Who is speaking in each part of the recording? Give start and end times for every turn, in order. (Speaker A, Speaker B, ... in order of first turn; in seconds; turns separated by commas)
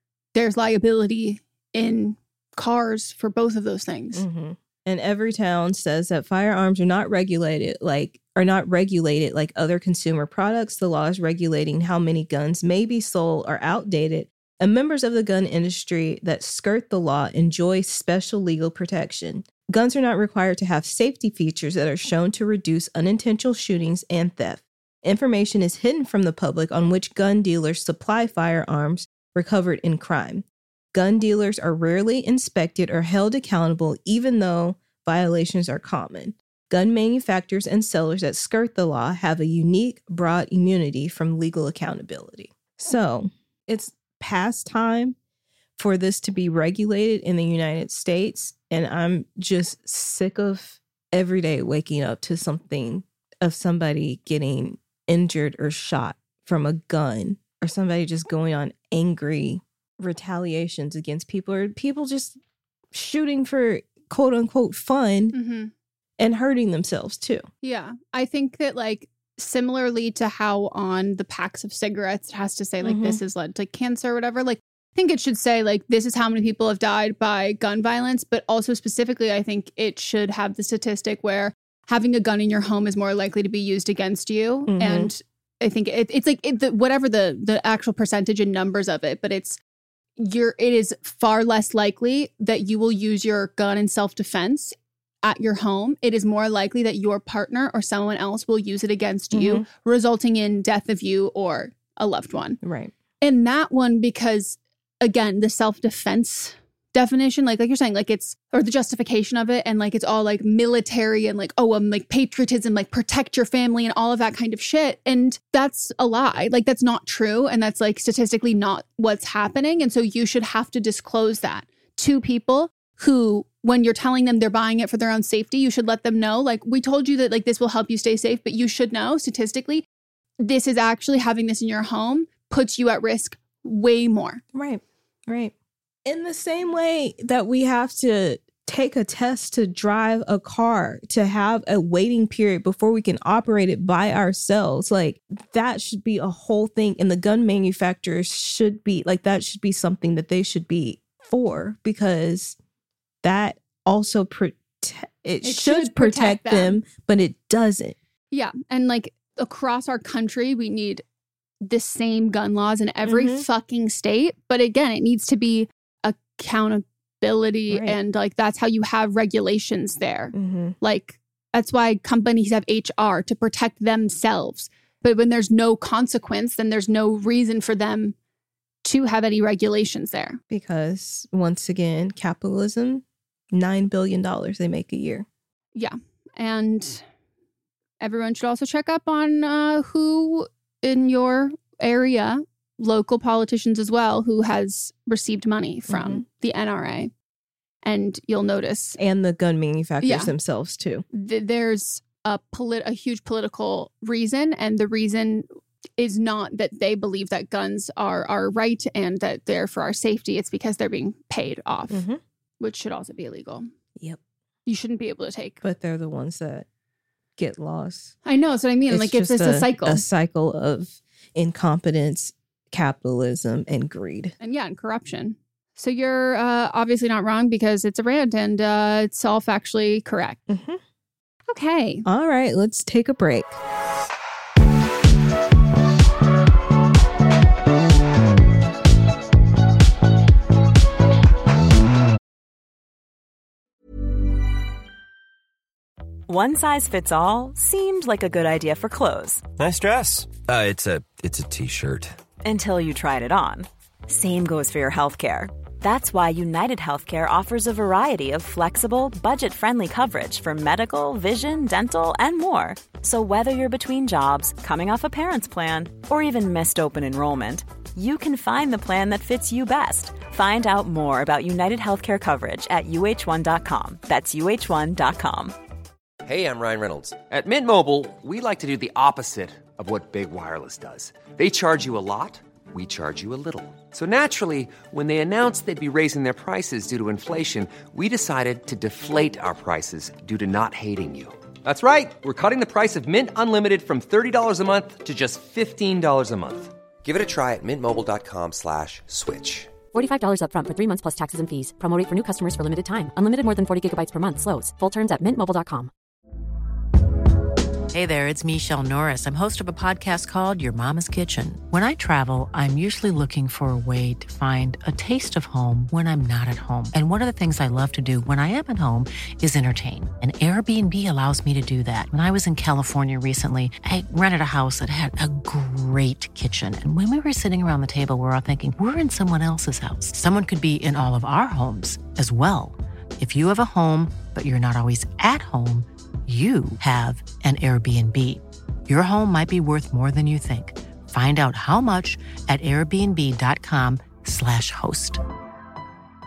Speaker A: 0.3-4.2, Speaker B: 4.2-45.2, Speaker B: 45.8-62.4, Speaker B: 62.9-65.3, Speaker A: 65.3-65.7, Speaker B: 66.2-67.5, Speaker A: 67.6-89.6, Speaker B: 72.8-73.2, Speaker B: 84.7-85.1, Speaker A: 90.2-102.6, Speaker B: 99.3-99.7, Speaker B: 102.6-102.9, Speaker A: 103.2-129.8, Speaker A: 130.4-134.4, Speaker B: 134.5-135.5, Speaker B: 136.1-152.6, Speaker B: 153.2-158.0, Speaker A: 155.4-156.8, Speaker A: 158.3-161.0, Speaker A: 161.6-178.2, Speaker B: 163.1-163.4, Speaker B: 167.7-168.0, Speaker B: 170.3-170.8, Speaker A: 178.8-180.4, Speaker B: 180.5-185.3, Speaker A: 185.8-187.0, Speaker A: 188.0-197.1, Speaker B: 195.9-196.2, Speaker A: 197.8-199.0, Speaker B: 199.0-201.1, Speaker A: 200.0-200.3, Speaker A: 201.1-205.5, Speaker A: 206.0-212.1, Speaker B: 211.9-212.2, Speaker A: 212.6-213.7, Speaker A: 214.7-215.6, Speaker B: 215.6-216.7, Speaker B: 217.4-218.2, Speaker A: 218.2-220.1, Speaker B: 218.9-224.3, Speaker A: 224.4-230.4, Speaker B: 230.5-230.8, Speaker A: 231.5-232.1, Speaker B: 232.1-233.6, Speaker C: 246.3-249.5, Speaker D: 249.7-252.1, Speaker C: 252.4-275.5, Speaker E: 276.2-299.8, Speaker F: 299.9-305.9, Speaker G: 307.9-345.2